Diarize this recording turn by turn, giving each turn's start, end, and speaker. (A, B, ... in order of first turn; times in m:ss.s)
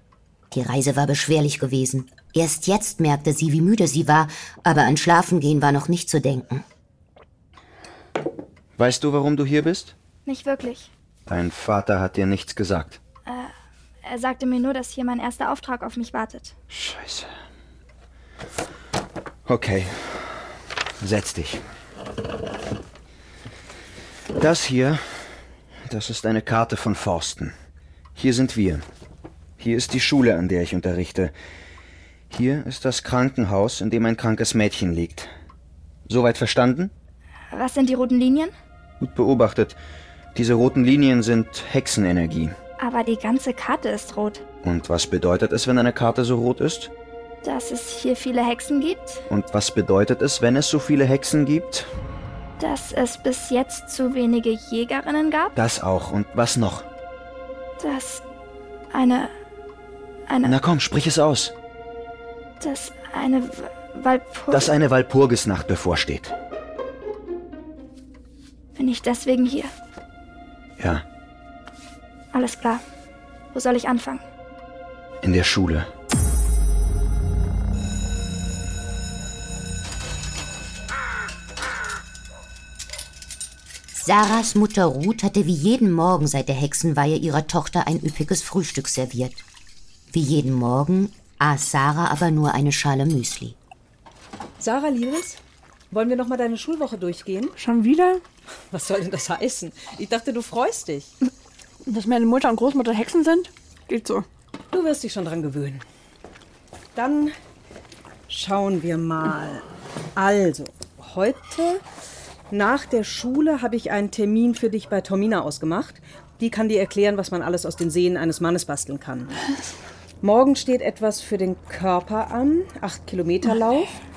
0:00.5-0:06.6 A
0:08.8-0:09.9 B
0:10.3-0:10.9 C
0:11.3-0:13.0 B
0:13.2-0:13.5 C
0:14.0-0:16.5 C
0:16.7-0:17.3 B
0:19.4-0:20.4 B
0:21.0-0:21.6 B
0:24.4-0:25.2 B
0:25.9-0:27.5 B
0:28.2-0:28.8 B
0:29.6-0:31.3 B
0:32.3-0:35.3 B
0:36.1-0:36.9 B
0:37.5-0:38.5 C
0:39.0-0:39.8 B
0:40.3-0:42.5 B
0:42.8-0:44.4 C
0:44.6-0:46.9 B
0:47.4-0:49.2 C
0:49.3-0:51.9 B
0:52.6-0:55.5 C
0:55.5-0:56.9 B
0:57.8-0:58.2 C
0:58.9-0:59.3 C
1:00.4-1:01.5 B
1:02.6-1:04.7 C
1:04.5-1:06.3 B
1:08.7-1:09.7 C
1:10.8-1:11.0 B
1:12.3-1:12.8 C
1:13.5-1:14.2 C
1:15.2-1:15.9 B
1:23.9-1:29.4 A
1:30.1-1:33.6 A
1:34.6-1:35.4 D
1:35.9-1:37.5 D
1:37.6-1:38.2 E
1:38.7-1:41.1 D
1:41.8-1:44.2 E
1:44.7-1:45.8 D
1:47.0-1:47.3 D
1:48.3-1:49.6 D
1:50.2-1:51.8 D
1:52.5-1:59.3 D
2:00.2-2:03.9 D